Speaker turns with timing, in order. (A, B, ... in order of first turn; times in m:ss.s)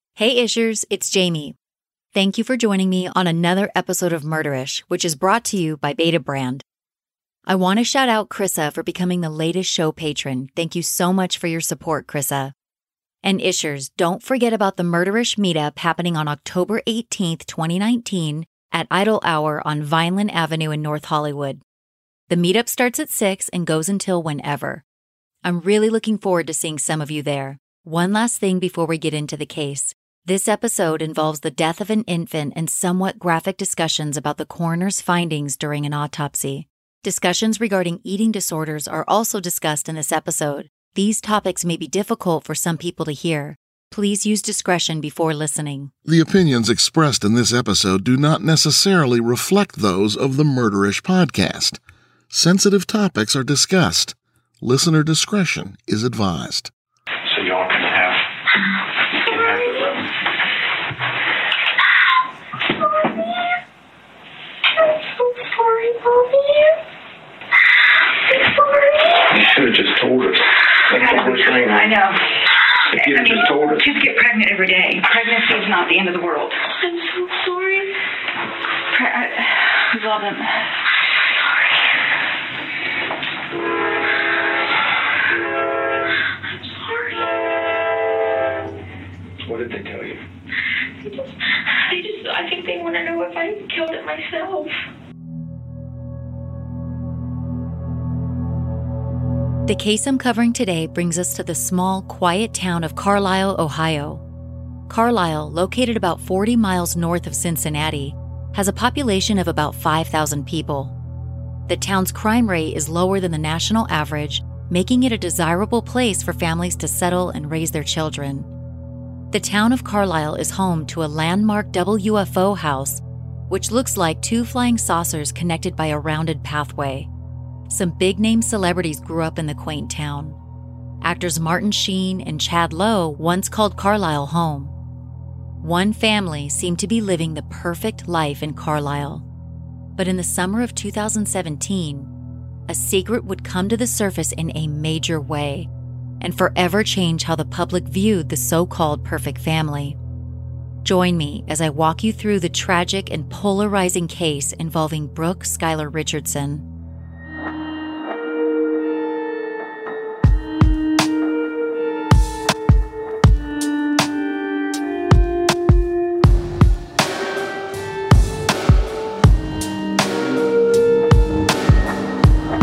0:00.2-0:01.6 A
0:02.1-0:06.6 A
0:07.5-0:12.5 A
0:13.2-0:21.6 A
0:22.3-0:24.8 A
0:25.4-0:45.9 A
0:46.0-0:56.7 B
0:57.2-0:58.2 C
0:59.2-1:00.1 C
1:04.8-1:06.8 D
1:08.3-1:09.2 D
1:09.3-1:12.0 C
1:10.9-1:12.2 E
1:12.9-1:13.9 C
1:13.0-1:16.6 E
1:16.8-1:18.0 D
1:18.9-1:20.6 E
1:26.5-1:27.4 D
1:29.4-1:30.2 C
1:31.0-1:34.8 D
1:39.7-1:44.2 A
1:44.9-1:50.9 A
1:51.7-1:58.5 A
1:59.3-2:07.1 A
2:07.7-2:10.4 A
2:11.0-2:14.7 A
2:15.6-2:19.2 A
2:20.0-2:22.1 A
2:22.7-2:25.7 A
2:26.2-2:30.0 A
2:30.8-2:36.6 A